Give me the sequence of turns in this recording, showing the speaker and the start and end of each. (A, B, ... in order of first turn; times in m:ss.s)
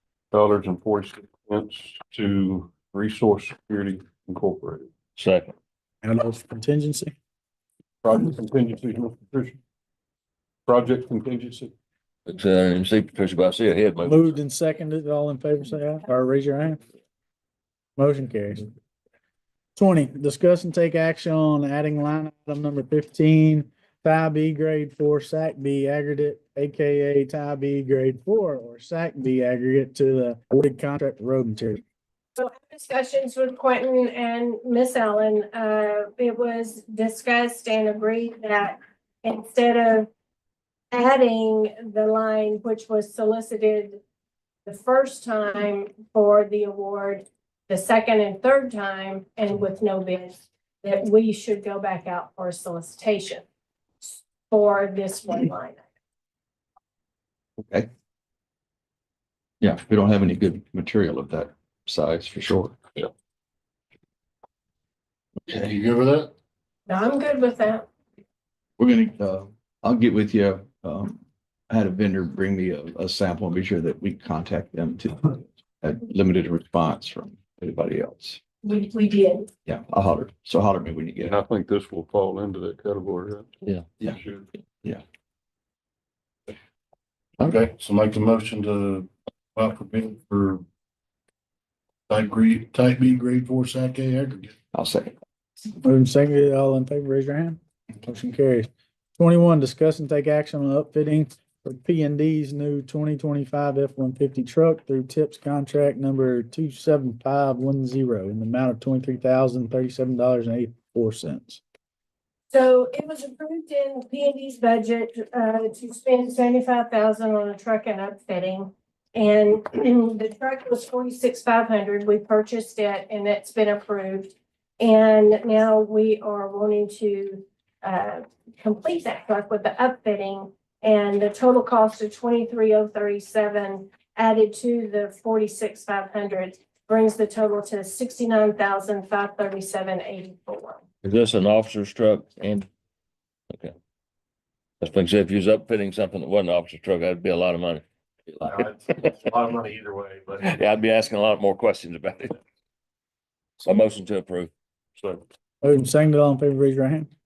0:00.3-0:04.9 A
0:05.2-0:05.6 B
0:06.0-0:07.1 C
0:08.0-0:09.6 A
0:10.7-0:11.7 A
0:12.3-0:14.3 B
0:14.0-0:16.8 C
0:18.0-0:18.7 C
0:19.8-0:31.8 C
0:32.4-0:40.1 D
0:40.9-0:44.0 D
0:44.7-0:53.4 D
0:54.0-0:55.8 D
0:59.6-1:02.8 E
1:05.5-1:06.3 F
1:06.9-1:07.9 D
1:08.8-1:18.4 E
1:18.6-1:19.5 D
1:19.7-1:21.4 E
1:21.2-1:24.5 A
1:27.4-1:30.6 F
1:32.1-1:34.5 F
1:34.7-1:35.1 E
1:35.8-1:51.6 C
1:52.5-2:20.8 D
2:21.0-2:22.7 B
2:24.8-2:29.1 B
2:28.5-2:30.5 G
2:30.4-2:32.4 B
2:33.6-2:34.5 B
2:35.6-2:37.1 C